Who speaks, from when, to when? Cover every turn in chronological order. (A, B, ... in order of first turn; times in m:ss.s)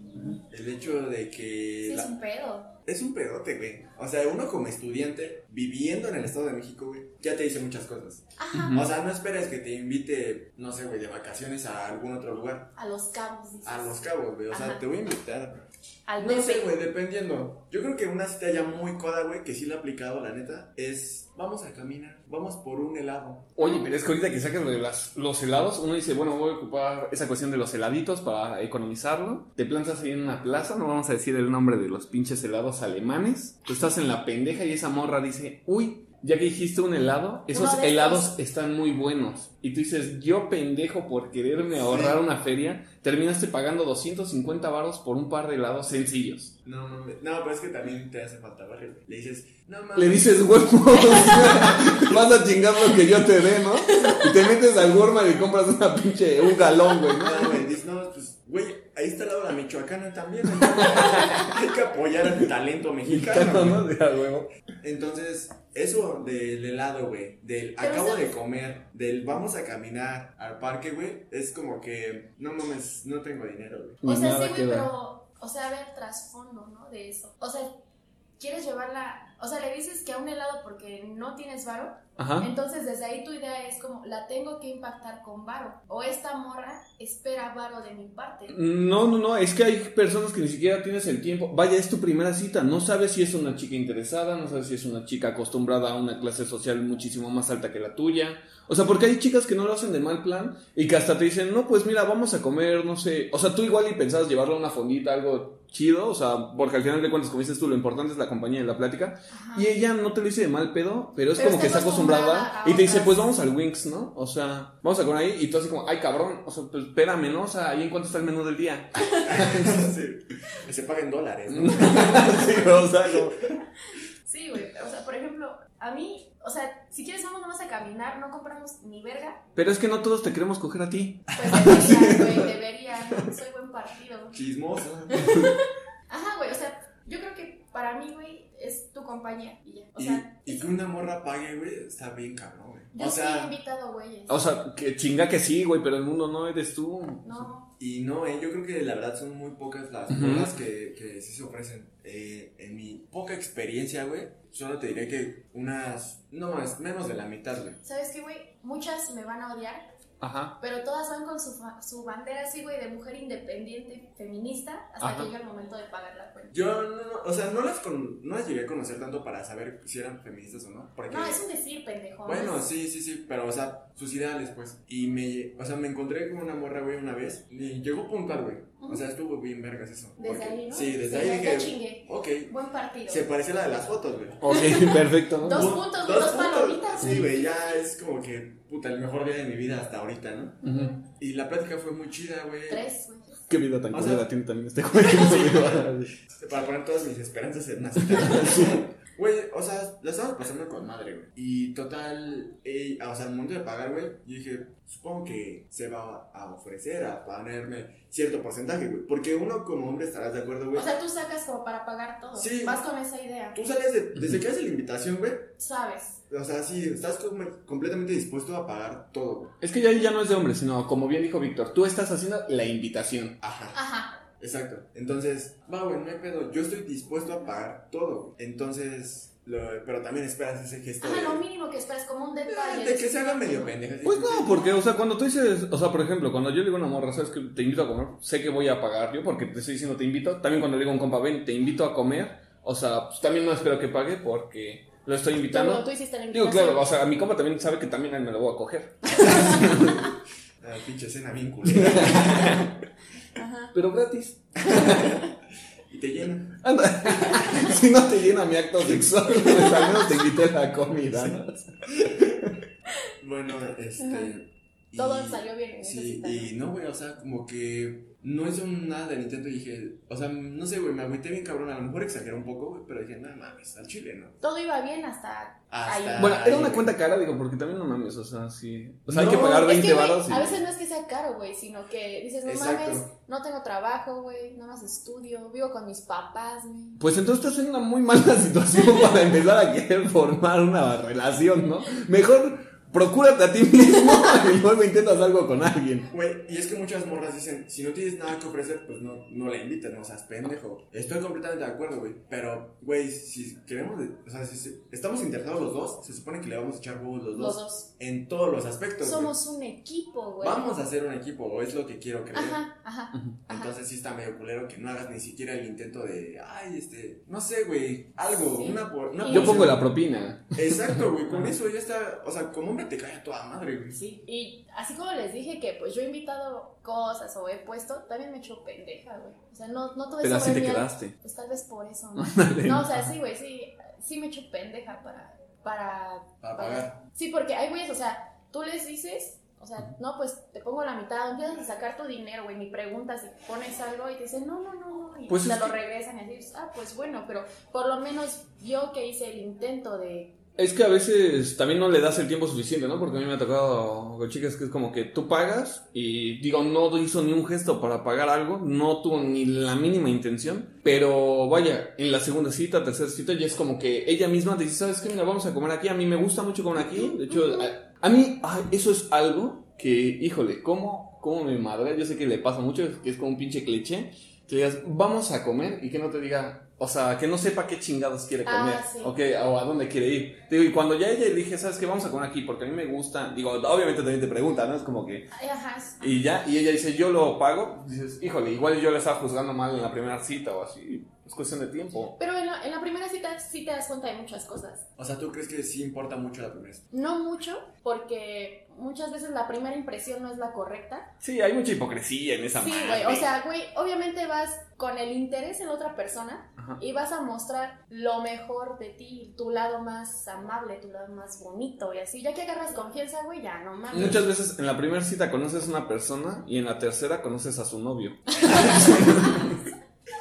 0:00.5-0:02.1 A
0:01.8-0:02.8 B
0:02.9-0:12.7 A
0:08.4-0:08.8 B
0:08.5-0:08.8 C
0:12.8-0:14.0 B
0:13.6-0:23.5 A
0:14.5-0:14.8 B
0:16.1-0:16.7 B
0:23.6-0:46.6 C
0:23.6-0:23.9 B
0:37.5-0:38.3 B
0:41.8-0:42.2 A
0:46.6-0:50.7 A
0:50.0-0:57.6 C
0:51.0-0:51.8 B
0:51.6-0:52.3 A
0:53.8-0:54.3 B
0:57.2-1:03.9 A
1:00.6-1:01.6 C
1:01.1-1:01.5 B
1:03.1-1:04.5 C
1:04.8-1:14.0 A
1:07.8-1:08.4 B
1:14.0-1:14.9 C
1:14.0-1:17.7 B
1:18.4-1:28.6 B
1:22.2-1:22.5 C
1:28.5-1:59.8 C
1:49.3-1:49.7 B
1:51.4-1:53.4 B
1:59.2-2:03.3 A
2:01.5-2:03.5 C
2:04.2-2:09.4 B
2:09.6-2:12.5 C
2:11.4-2:14.4 B
2:14.3-2:15.3 A
2:15.1-2:20.7 B
2:15.2-2:15.5 C
2:20.0-2:23.6 A
2:22.9-2:24.4 B
2:24.3-2:27.5 C
2:27.2-2:27.7 B
2:27.8-2:37.8 A
2:30.1-2:30.5 C
2:37.8-2:39.9 B
2:40.2-2:40.6 C
2:40.6-2:46.6 B
2:45.0-2:45.3 C
2:46.5-2:51.4 A
2:51.1-2:52.6 B
2:52.2-3:02.5 A
3:00.2-3:03.3 B
3:03.1-3:04.6 A
3:04.4-3:05.8 C
3:04.5-3:07.4 B
3:05.4-3:12.9 A
3:07.0-3:07.3 C
3:10.6-3:11.0 C
3:12.7-3:13.4 B
3:13.5-3:16.2 C
3:13.9-3:14.3 A
3:15.0-3:30.9 A
3:18.0-3:18.8 C
3:30.7-3:33.6 B
3:32.3-3:32.9 A
3:33.5-3:35.5 A
3:34.2-3:34.4 C
3:35.6-3:36.2 B
3:36.3-3:39.6 A
3:39.6-3:43.4 C
3:43.4-3:43.8 A
3:43.7-3:44.2 B
3:44.4-3:51.4 A
3:51.0-3:53.8 B
3:52.5-3:54.8 A
3:54.0-4:10.1 C
4:05.5-4:06.8 B
4:09.1-4:09.6 B
4:09.4-4:12.7 A
4:11.7-4:12.8 C
4:13.4-4:13.7 B
4:13.7-4:15.1 C
4:14.6-4:15.3 A
4:14.7-4:15.2 B
4:15.9-4:16.6 A
4:16.6-4:22.6 C
4:17.2-4:17.6 A
4:18.8-4:19.7 A
4:21.1-4:21.4 A
4:23.2-4:34.4 A
4:24.0-4:24.3 B
4:25.0-4:26.5 B
4:34.4-4:36.5 B
4:35.7-4:36.9 A
4:36.2-4:40.6 C
4:39.1-4:39.7 A
4:39.3-4:47.0 B
4:42.4-4:43.1 A
4:47.0-4:56.1 C
4:56.1-5:09.3 A
5:07.4-5:07.9 B
5:09.0-5:10.7 B
5:10.4-5:12.6 A
5:12.3-5:13.8 B
5:13.5-5:19.8 A
5:18.3-5:19.8 B
5:19.3-5:21.5 C
5:20.6-5:24.0 A
5:24.0-5:50.4 B
5:30.2-5:31.1 C
5:32.2-5:33.1 C
5:36.4-5:37.0 A
5:45.3-5:45.7 C
5:50.6-6:25.3 C
6:07.0-6:07.7 B
6:18.5-6:19.1 B
6:25.3-6:26.2 B
6:26.0-6:32.2 C
6:32.2-6:34.9 B
6:35.0-6:36.9 A
6:36.9-6:41.2 B
6:41.2-6:43.3 C
6:42.6-6:54.3 B
6:53.9-6:59.5 C
6:58.3-6:59.7 B